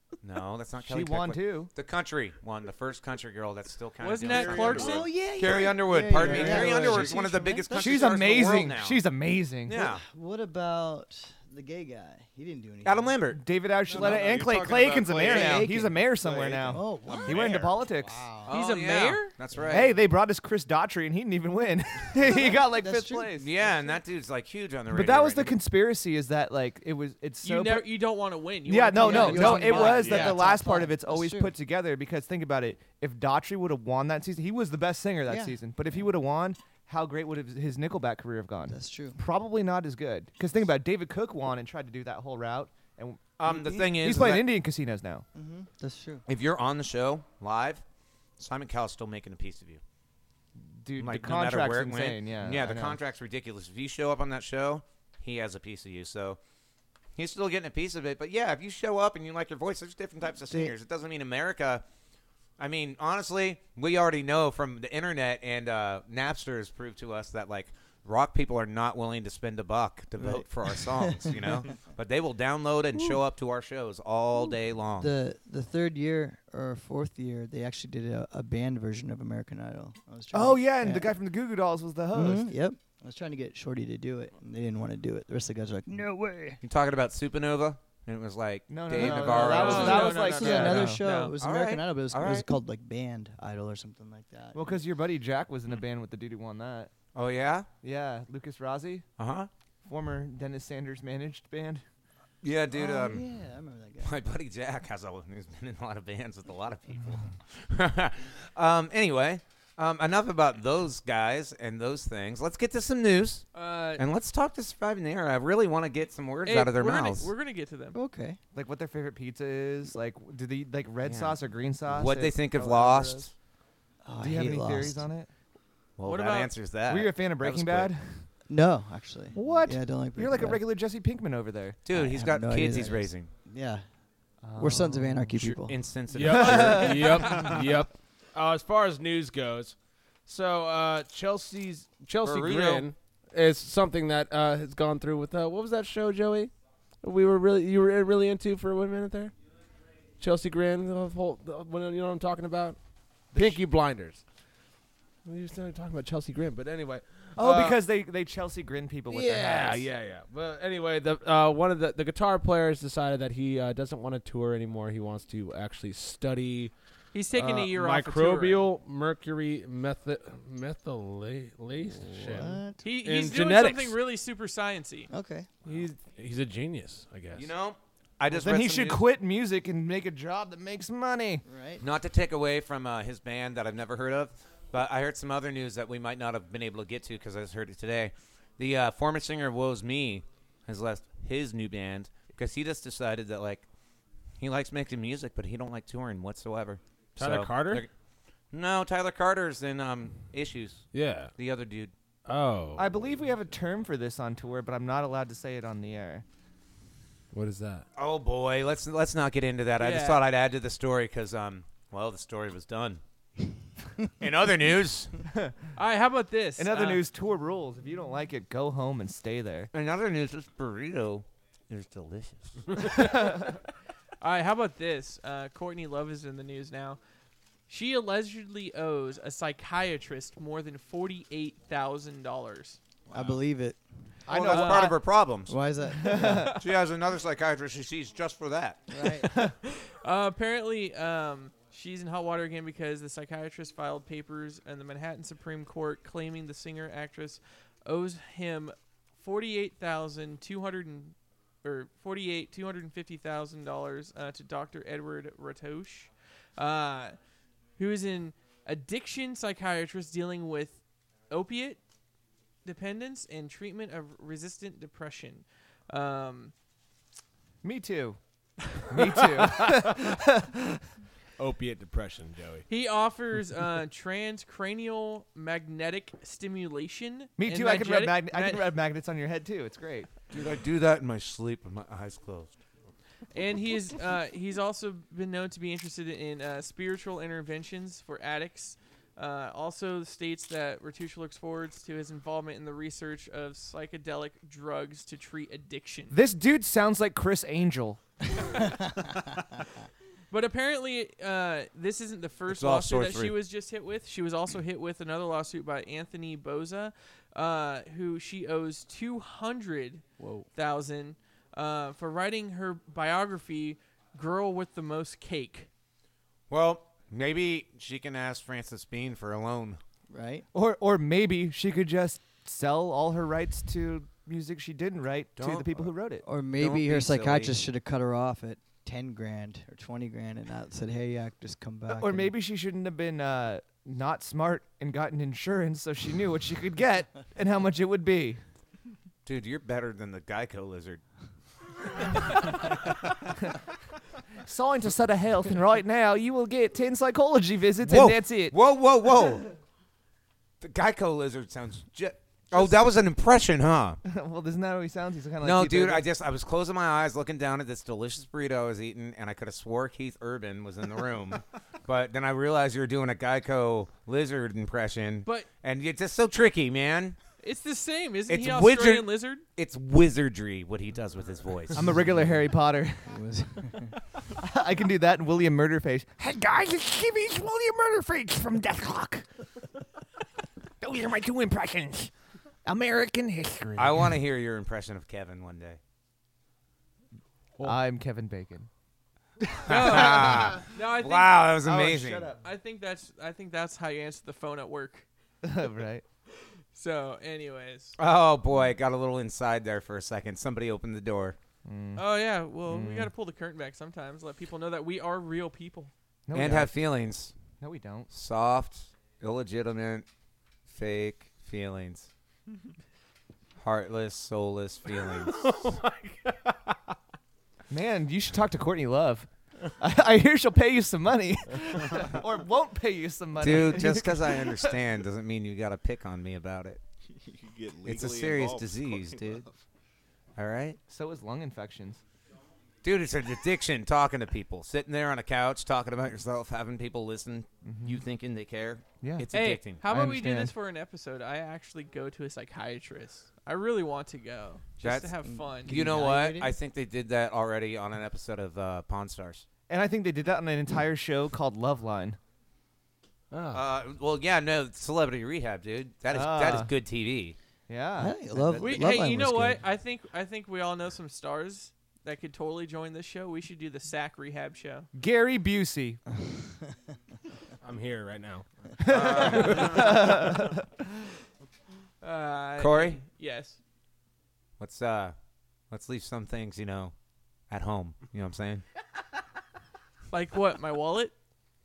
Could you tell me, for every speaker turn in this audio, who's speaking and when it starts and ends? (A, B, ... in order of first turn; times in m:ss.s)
0:00.2-0:09.0 A
0:00.8-0:01.7 B
0:04.0-0:05.1 C
0:04.2-0:05.5 D
0:04.8-0:08.4 E
0:06.2-0:07.0 B
0:06.3-0:07.1 D
0:07.8-0:09.9 B
0:09.6-0:10.0 A
0:09.8-0:13.2 E
0:12.8-0:13.4 A
0:13.3-0:18.2 B
0:13.8-0:18.0 D
0:13.9-0:14.3 E
0:15.2-0:16.0 E
0:16.7-0:17.5 E
0:18.0-0:18.5 E
0:18.4-0:20.0 A
0:18.5-0:19.3 C
0:19.7-0:23.5 B
0:22.3-0:23.3 E
0:23.3-0:25.6 A
0:24.9-0:27.9 B
0:27.4-0:30.2 C
0:28.6-0:45.2 B
0:28.9-0:31.5 E
0:29.9-0:30.4 D
0:35.2-0:36.1 E
0:38.7-0:39.2 E
0:43.4-0:44.5 A
0:45.3-0:46.2 E
0:46.3-0:47.8 A
0:48.4-0:49.8 A
0:50.6-0:53.0 B
0:51.0-0:56.4 A
0:57.2-1:01.8 A
1:00.5-1:00.7 E
1:02.6-1:15.1 A
1:10.2-1:11.6 E
1:15.0-1:21.2 E
1:20.3-1:22.5 B
1:22.1-1:26.6 E
1:26.6-1:30.3 A
1:28.7-1:31.0 B
1:28.9-1:34.8 E
1:29.2-1:31.3 C
1:31.3-1:32.5 A
1:34.5-1:36.9 B
1:37.1-1:37.7 A
1:37.8-1:39.0 B
1:39.2-1:39.5 A
1:39.8-1:41.8 B
1:42.4-1:43.2 A
1:42.7-1:44.2 E
1:44.0-1:57.3 A
1:53.5-1:54.0 C
1:56.4-1:58.0 C
1:57.9-1:58.4 E
1:58.5-2:03.3 B
2:01.0-2:03.3 A
2:04.0-2:05.1 E
2:04.2-2:05.3 B
2:06.0-2:07.9 A
2:06.0-2:06.5 C
2:06.9-2:08.3 B
2:08.5-2:10.6 E
2:09.3-2:11.8 B
2:11.8-2:13.3 A
2:11.9-2:13.8 E
2:14.4-2:15.3 B
2:14.6-2:15.8 E
2:15.3-2:17.4 A
2:16.1-2:29.3 F
2:16.3-2:17.1 B
2:22.2-2:22.9 A
2:30.2-2:32.8 F
2:33.3-2:34.2 F
2:33.3-2:33.6 B
2:35.2-2:37.8 F
2:37.4-2:39.9 B
2:39.1-2:46.7 F
2:47.1-2:48.7 C
2:47.3-2:54.0 F
2:52.2-2:52.8 E
2:52.8-2:55.1 C
2:55.1-2:55.5 E
2:55.6-2:57.5 F
2:57.3-2:59.0 A
2:58.3-3:01.4 B
3:01.4-3:01.8 E
3:01.8-3:13.6 A
3:14.4-3:17.9 A
3:17.2-3:17.8 F
3:18.5-3:21.9 A
3:20.9-3:21.3 F
3:22.2-3:23.1 F
3:22.8-3:26.2 B
3:27.3-3:27.8 F
3:27.9-3:33.0 A
3:29.8-3:30.2 C
3:34.2-3:35.2 A
3:35.3-3:35.5 B
3:35.7-3:37.0 C
3:36.6-3:39.7 B
3:39.7-3:42.8 A
3:42.9-3:43.6 B
3:44.2-3:47.0 C
3:47.7-3:52.8 C
3:53.1-3:53.4 D
3:53.1-3:54.1 E
3:54.3-3:55.0 B
3:54.3-3:55.6 A
3:54.5-3:54.9 C
3:55.4-3:56.5 E
3:56.0-3:56.6 B
3:56.6-3:58.8 A
3:58.9-3:59.3 E
3:59.6-4:17.2 C
4:17.8-4:21.8 C
4:22.6-4:26.5 C
4:27.6-4:28.2 B
4:28.7-4:30.8 B
4:29.0-4:30.1 F
4:31.4-4:32.7 F
4:32.7-4:38.7 C
4:37.4-4:40.1 B
4:40.3-4:42.5 A
4:43.3-4:56.2 C
4:56.1-4:58.0 B
5:00.3-5:15.7 C
5:02.5-5:03.4 A
5:10.2-5:10.4 F
5:16.5-5:19.8 A
5:20.1-5:20.5 E
5:20.5-5:26.2 B
5:25.4-5:25.9 A
5:26.2-5:32.3 E
5:26.5-5:27.6 A
5:31.9-5:38.4 B
5:39.2-5:41.0 A
5:44.4-5:48.6 B
5:47.8-5:49.4 A
5:50.6-5:54.0 A
5:54.0-5:56.1 B
5:55.4-6:07.2 A
6:07.4-6:09.4 C
6:08.3-6:11.9 A
6:11.7-6:13.2 B
6:13.0-6:14.0 E
6:14.3-6:19.2 B
6:20.8-6:22.1 B
6:22.6-6:24.2 B
6:23.8-6:25.8 A
6:27.6-6:28.7 B
6:29.5-6:30.6 B
6:29.7-6:31.5 C
6:29.7-6:32.3 A
6:31.6-6:32.4 B
6:32.4-6:35.0 C
6:35.4-6:36.0 B
6:36.7-6:38.0 C
6:38.0-6:41.4 A
6:41.6-6:42.0 B
6:42.0-6:45.9 C
6:42.7-6:43.1 B
6:46.3-6:46.7 B
6:46.3-6:47.4 A
6:47.6-6:48.1 B
6:48.1-6:50.0 A
6:50.7-6:52.1 A
6:53.6-6:55.5 A
6:54.9-6:56.8 F
6:57.7-7:04.7 B
7:03.4-7:06.8 A
7:07.2-7:09.6 D
7:07.8-7:09.4 A
7:10.4-7:10.8 A
7:10.9-7:12.0 B
7:12.8-7:19.8 A
7:17.6-7:18.0 B
7:19.0-7:19.3 B
7:19.3-7:25.8 C
7:19.8-7:20.5 B
7:24.8-7:29.4 A
7:25.2-7:26.5 E
7:29.7-7:32.2 B
7:33.3-7:33.6 F
7:33.5-7:37.4 A
7:36.1-7:36.7 B
7:37.7-7:38.9 B
7:38.0-7:39.6 E
7:38.6-7:44.9 C
7:44.9-7:46.0 B
7:47.6-7:50.3 F
7:48.8-7:50.6 B
7:48.8-7:49.8 A
7:52.0-7:53.6 C
7:52.6-7:53.0 A
7:54.6-7:55.1 A
7:55.7-7:56.9 A
7:57.5-7:58.6 A
8:00.1-8:01.1 C